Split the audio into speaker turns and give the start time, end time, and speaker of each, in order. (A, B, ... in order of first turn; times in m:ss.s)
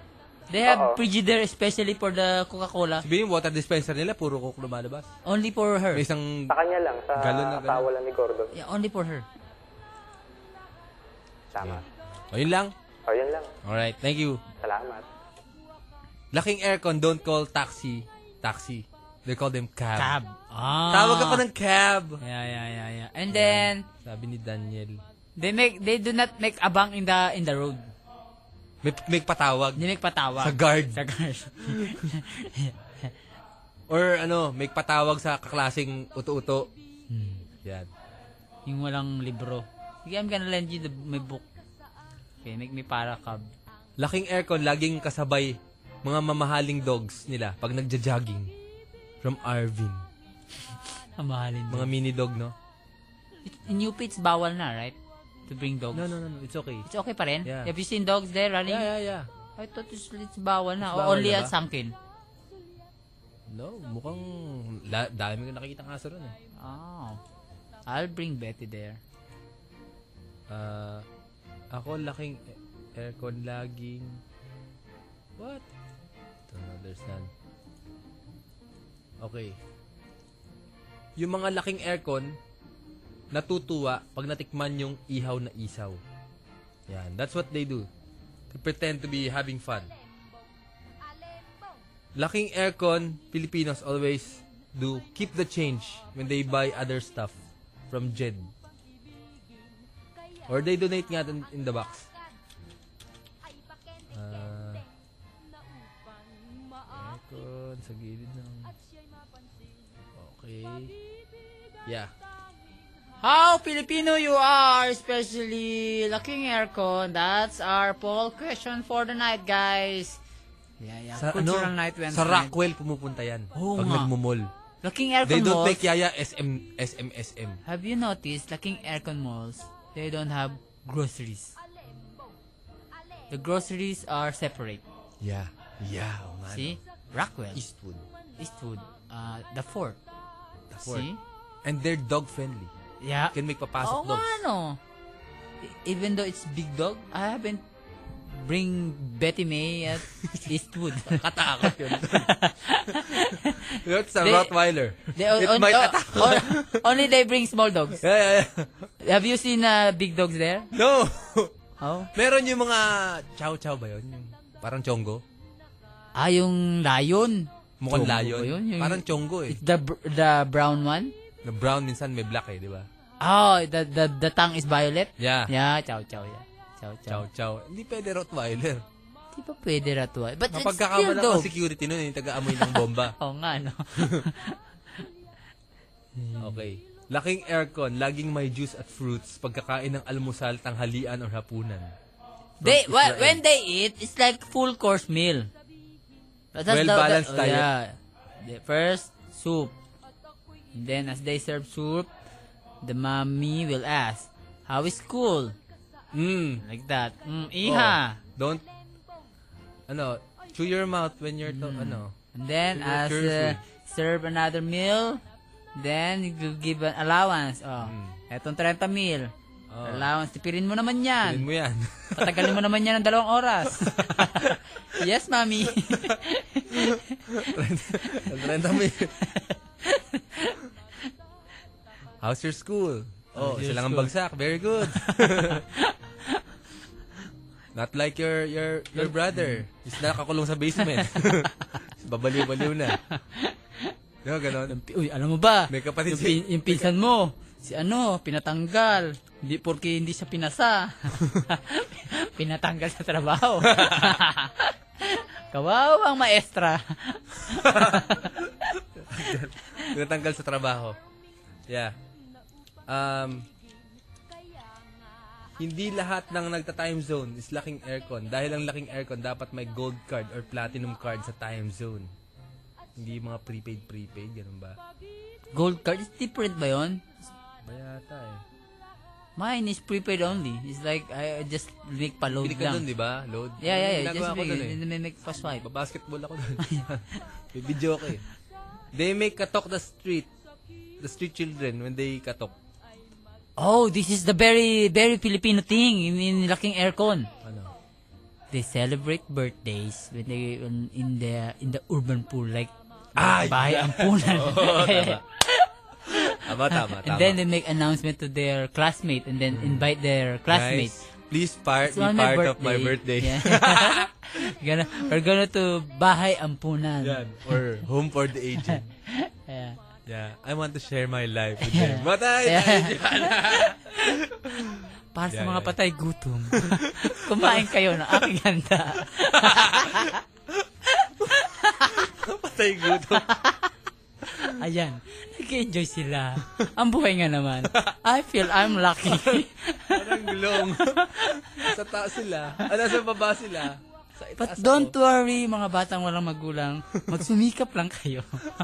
0:00.5-0:03.0 A
0:00.6-0:01.0 B
0:03.0-0:05.1 C
0:05.3-0:06.0 A
0:05.9-0:06.5 C
0:06.5-0:08.5 B
0:07.2-0:07.9 C
0:08.5-0:09.3 A
0:11.5-0:11.8 B
0:11.6-0:12.7 C
0:13.1-0:13.5 B
0:13.6-0:14.4 C
0:14.6-0:15.0 B
0:16.3-0:20.2 C
0:20.0-0:21.4 A
0:20.9-0:22.2 C
0:22.2-0:23.8 A
0:23.3-0:25.0 C
0:25.4-0:27.9 A
0:28.8-0:29.8 C
0:29.8-0:32.7 A
0:30.4-0:31.0 C
0:31.7-0:32.0 C
0:33.9-0:36.7 C
0:37.1-0:37.4 A
0:38.7-0:41.4 A
0:42.4-0:43.4 A
0:44.0-0:48.5 C
0:49.2-0:50.0 C
0:51.2-0:51.9 A
0:51.7-0:52.5 C
0:53.5-0:55.0 A
0:55.5-0:56.2 A
0:55.9-0:56.9 C
0:56.9-0:58.9 A
0:57.4-0:57.7 C
0:58.7-0:59.3 C
0:59.6-1:01.9 A
1:00.8-1:01.5 C
1:03.5-1:06.3 C
1:06.6-1:07.2 A
1:07.9-1:09.0 A
1:10.5-1:11.0 C
1:11.7-1:12.4 C
1:13.0-1:14.2 C
1:15.4-1:15.6 C
1:16.5-1:17.3 C
1:19.2-1:19.6 C
1:21.2-1:22.3 C
1:23.3-1:26.0 C
1:26.9-1:27.9 C
1:28.5-1:29.9 C
1:32.2-1:37.4 C
1:37.9-1:38.5 C
1:40.5-1:42.1 C
1:44.1-1:44.8 C
1:46.9-1:48.7 C
1:50.2-1:50.9 C
1:51.9-1:52.1 C
1:53.2-2:00.2 A
2:00.8-2:02.6 A
2:01.2-2:04.5 C
2:03.6-2:04.1 A
2:04.8-2:05.8 A
2:05.2-2:07.6 C
2:07.6-2:11.6 A
2:13.3-2:14.8 A
2:15.2-2:16.8 C
2:16.5-2:17.6 A
2:17.5-2:18.0 C
2:18.4-2:20.0 A
2:20.7-2:21.1 C
2:20.8-2:21.2 A
2:21.6-2:22.7 C
2:23.0-2:24.8 A
2:23.3-2:24.4 C
2:25.6-2:27.6 A
2:28.3-2:33.7 A
2:31.0-2:32.3 C
2:33.8-2:36.8 C
2:34.2-2:34.5 A
2:35.2-2:38.0 A
2:38.0-2:38.8 C
2:39.0-2:40.7 A
2:40.7-2:41.5 C
2:41.8-2:42.1 A
2:42.1-2:45.2 C
2:46.2-2:51.1 A
2:47.8-2:49.6 C
2:51.4-2:52.9 C
2:53.2-2:57.2 A
2:55.2-2:55.5 C
2:57.1-2:58.8 C
2:59.4-3:01.5 A
3:00.5-3:03.2 C
3:02.5-3:04.5 A
3:06.2-3:06.6 A
3:06.4-3:11.9 C
3:12.6-3:15.5 A
3:12.6-3:13.4 C
3:16.5-3:19.7 A
3:16.7-3:17.7 C
3:20.8-3:22.1 A
3:22.8-3:25.6 A
3:26.1-3:26.6 C
3:26.6-3:28.2 A
3:27.6-3:28.6 C
3:29.9-3:32.1 C
3:31.4-3:35.2 A
3:32.8-3:33.6 C
3:35.8-3:39.3 A
3:37.8-3:38.2 C
3:39.7-3:40.1 C
3:39.9-3:41.5 A
3:41.2-3:42.6 C
3:42.2-3:47.4 A
3:43.8-3:44.6 C
3:46.8-3:49.1 C
3:48.1-3:48.4 A
3:49.3-3:50.6 A
3:52.2-3:55.6 C
3:53.4-3:54.1 A
3:54.9-3:55.9 A
3:57.8-4:03.0 C
3:59.0-4:00.0 A
4:00.8-4:01.5 A
4:02.6-4:03.9 A
4:04.2-4:04.8 C
4:04.7-4:18.4 A
4:05.7-4:06.9 C
4:13.6-4:14.2 C
4:17.6-4:21.0 C
4:21.7-4:21.9 C
4:22.9-4:23.5 C
4:25.6-4:32.1 C
4:33.0-4:34.8 C
4:35.5-4:37.0 A
4:37.6-4:38.4 C
4:39.4-4:42.8 A
4:42.4-4:44.8 C
4:43.6-4:45.6 A
4:45.6-4:48.2 C
4:48.9-4:50.3 C
4:51.0-4:52.5 C
4:53.6-4:57.3 A
4:57.4-4:57.7 C
4:58.5-5:11.0 A
5:03.2-5:05.2 C
5:06.3-5:07.4 C
5:09.5-5:09.9 C
5:10.5-5:14.1 C
5:11.9-5:17.6 A
5:17.0-5:18.8 C
5:18.7-5:19.8 A
5:20.1-5:25.7 C
5:21.6-5:24.0 A
5:25.2-5:30.2 A
5:26.6-5:28.2 C
5:29.3-5:30.6 C
5:31.0-5:32.1 A
5:32.0-5:33.4 C
5:33.1-5:33.6 A
5:34.4-5:41.3 A
5:39.0-5:44.9 C
5:44.4-5:48.4 A